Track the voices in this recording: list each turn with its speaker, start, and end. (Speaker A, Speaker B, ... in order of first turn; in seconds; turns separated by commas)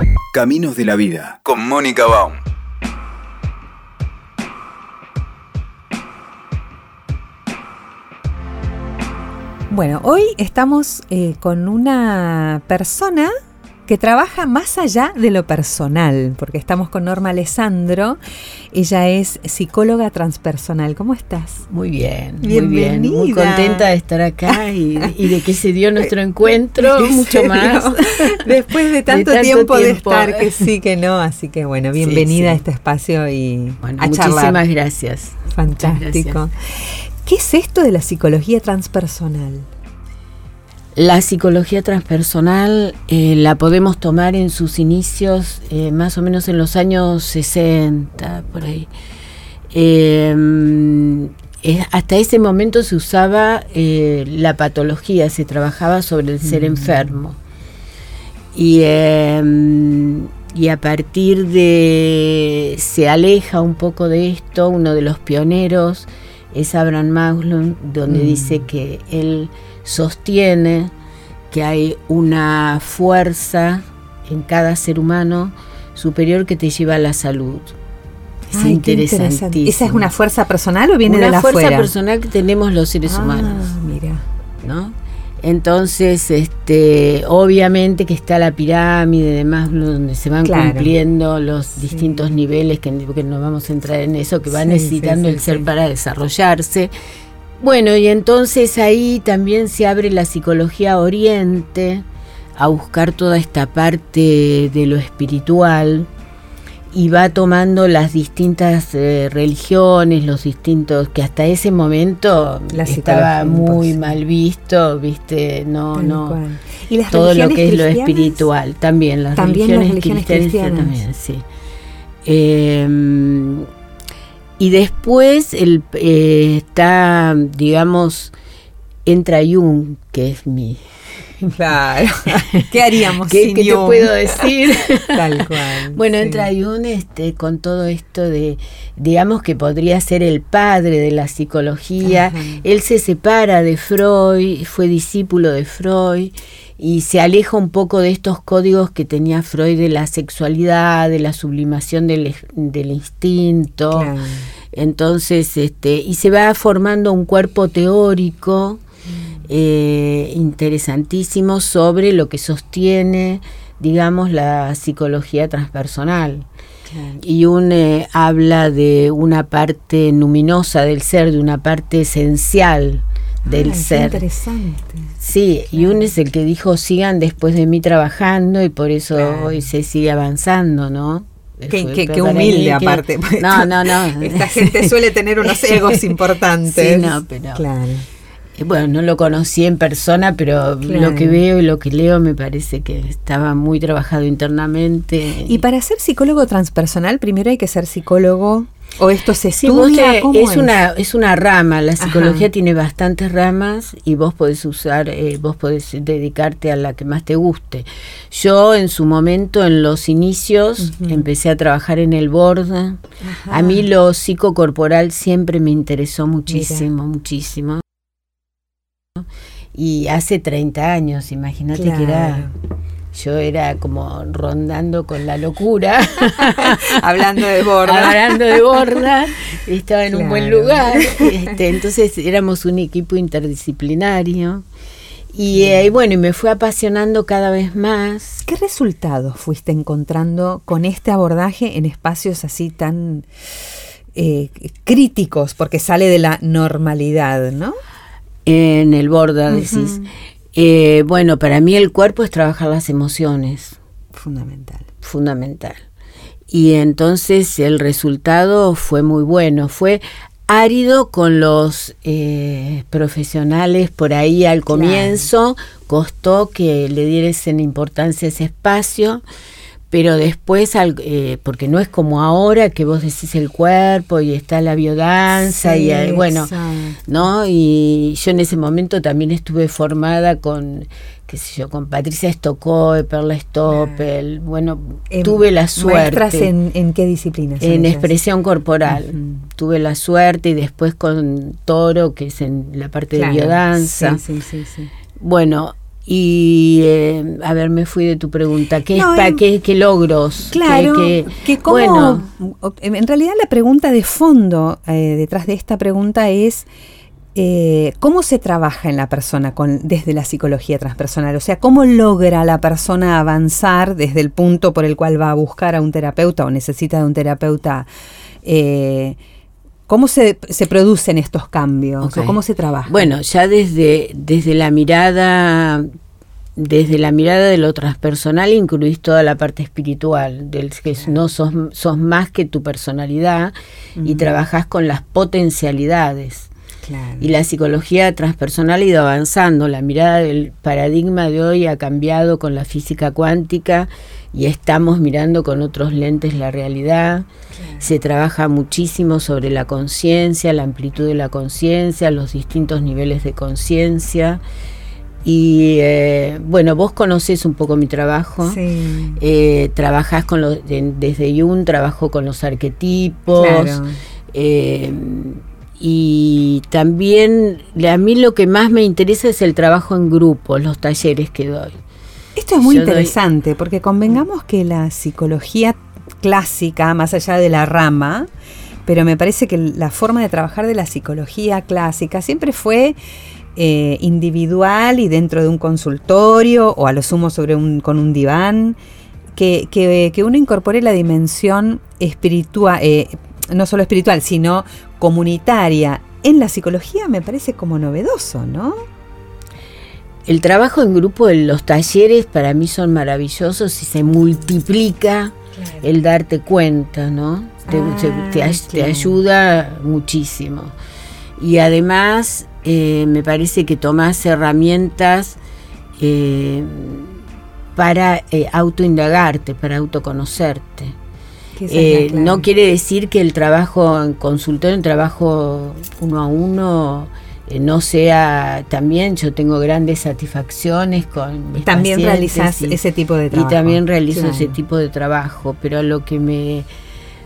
Speaker A: 0.3-2.4, Speaker B: 9.7-13.3, Speaker B: 13.9-18.2, Speaker B: 18.7-21.6, Speaker C: 21.7-28.4, Speaker B: 22.4-23.9, Speaker B: 26.8-34.6, Speaker C: 29.1-30.7, Speaker C: 32.0-32.6, Speaker C: 33.8-36.4, Speaker B: 35.5-39.7, Speaker C: 41.0-48.9, Speaker C: 49.7-57.4, Speaker B: 56.4-57.1, Speaker C: 58.5-70.9, Speaker B: 68.1-68.7, Speaker C: 71.5-77.7, Speaker C: 78.5-80.1, Speaker B: 78.5-81.9, Speaker C: 81.0-83.7, Speaker B: 83.0-84.2, Speaker C: 84.6-96.9, Speaker B: 90.4-90.9, Speaker B: 91.8-92.3, Speaker B: 94.5-95.7, Speaker C: 97.6-102.0, Speaker C: 102.6-106.1, Speaker C: 106.9-116.4, Speaker B: 112.7-114.1, Speaker B: 115.9-118.4, Speaker C: 117.1-121.4, Speaker B: 119.3-121.0, Speaker C: 122.2-123.7, Speaker C: 124.6-128.3, Speaker C: 129.1-130.8, Speaker B: 131.5-136.5, Speaker C: 133.2-154.1, Speaker B: 142.0-142.6, Speaker B: 153.9-154.5, Speaker C: 154.7-158.8, Speaker B: 159.1-159.5, Speaker C: 159.5-166.5, Speaker B: 166.9-167.2, Speaker C: 167.2-174.2, Speaker B: 173.5-175.1, Speaker C: 175.2-186.1, Speaker B: 175.8-176.1, Speaker B: 179.1-179.7, Speaker B: 181.7-188.1, Speaker C: 186.7-187.6, Speaker C: 188.6-195.6, Speaker B: 190.8-191.4, Speaker B: 195.4-200.7, Speaker C: 199.5-217.8, Speaker B: 202.0-202.5, Speaker B: 210.8-211.3, Speaker B: 213.2-213.9, Speaker B: 216.5-216.9, Speaker C: 219.7-222.5, Speaker B: 221.7-222.5, Speaker C: 223.1-234.6, Speaker B: 226.4-229.1, Speaker B: 230.1-231.5, Speaker C: 235.3-238.4, Speaker B: 235.5-235.9, Speaker B: 238.4-243.3, Speaker B: 244.1-247.8, Speaker C: 248.4-253.8, Speaker B: 249.5-250.0, Speaker B: 254.1-254.8, Speaker C: 255.0-255.8, Speaker C: 256.5-269.2, Speaker B: 264.7-265.3, Speaker C: 269.9-276.5, Speaker B: 275.4-277.0, Speaker C: 277.1-286.5, Speaker B: 283.7-284.0, Speaker B: 285.1-288.1, Speaker C: 287.6-294.2, Speaker B: 288.9-289.4, Speaker B: 293.1-294.9, Speaker C: 295.1-302.2, Speaker B: 298.9-299.4, Speaker B: 300.5-306.7, Speaker B: 307.3-317.9, Speaker B: 318.4-319.2, Speaker B: 319.9-323.1, Speaker C: 322.0-325.9, Speaker C: 326.6-336.5, Speaker B: 334.0-334.4, Speaker B: 336.8-337.4, Speaker C: 337.2-347.3, Speaker B: 347.5-347.9, Speaker C: 347.8-354.4, Speaker C: 355.2-358.6, Speaker B: 358.4-359.2, Speaker C: 359.1-371.8, Speaker B: 363.3-364.0, Speaker B: 372.4-378.3, Speaker C: 372.6-373.1, Speaker B: 378.9-383.0, Speaker B: 383.5-388.8, Speaker B: 389.3-398.8, Speaker C: 400.2-410.7, Speaker B: 405.5-405.9, Speaker B: 407.7-409.2, Speaker C: 411.4-415.4, Speaker C: 416.0-417.2, Speaker C: 417.8-420.9, Speaker B: 421.6-422.4, Speaker C: 421.7-432.8, Speaker B: 431.6-434.6, Speaker C: 433.3-436.7